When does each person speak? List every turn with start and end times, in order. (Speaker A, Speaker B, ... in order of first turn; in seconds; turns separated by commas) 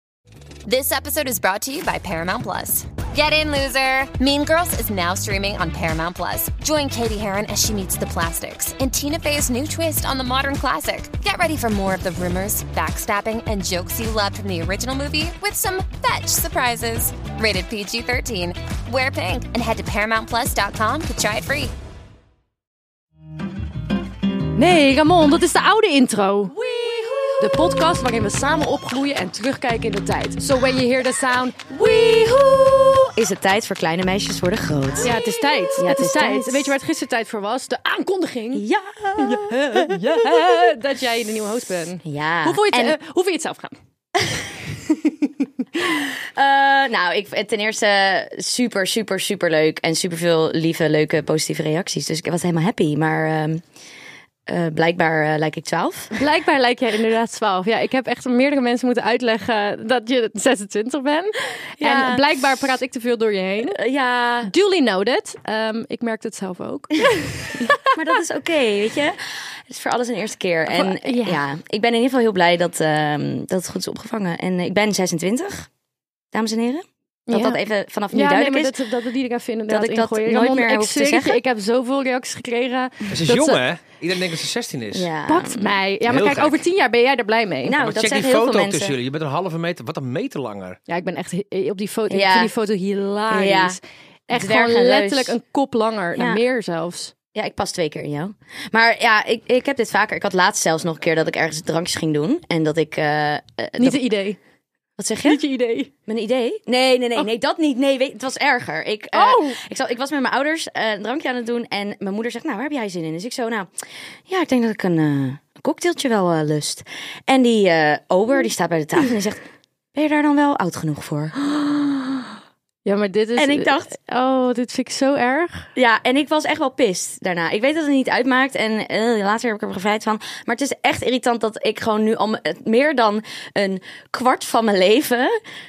Speaker A: 0.7-21.7, Speaker B: 24.6-33.1, Speaker C: 33.1-35.2, Speaker B: 35.0-38.6, Speaker C: 35.8-36.8, Speaker C: 38.5-40.7, Speaker B: 39.2-43.8, Speaker C: 42.0-43.0, Speaker C: 44.2-44.5, Speaker C: 45.8-53.6, Speaker C: 54.5-56.1, Speaker B: 56.1-63.8, Speaker C: 61.8-62.3, Speaker C: 63.7-64.5, Speaker B: 64.5-68.0, Speaker C: 67.5-75.7, Speaker B: 70.7-71.4, Speaker C: 76.3-78.8, Speaker B: 77.3-83.6, Speaker C: 79.7-81.4, Speaker D: 83.1-85.1, Speaker C: 84.9-85.8, Speaker B: 85.3-87.8, Speaker D: 86.1-86.6, Speaker C: 87.6-89.0, Speaker D: 87.8-90.8, Speaker B: 90.9-97.1, Speaker C: 92.1-92.5, Speaker C: 93.3-93.8, Speaker C: 94.3-95.4, Speaker C: 96.2-96.4, Speaker C: 97.3-104.0, Speaker B: 103.8-104.4, Speaker C: 105.0-105.4, Speaker B: 105.2-105.9, Speaker C: 106.1-113.7, Speaker B: 109.1-109.6, Speaker C: 114.3-119.4, Speaker C: 120.0-121.4, Speaker B: 122.9-125.7, Speaker C: 123.4-123.9, Speaker C: 125.8-135.3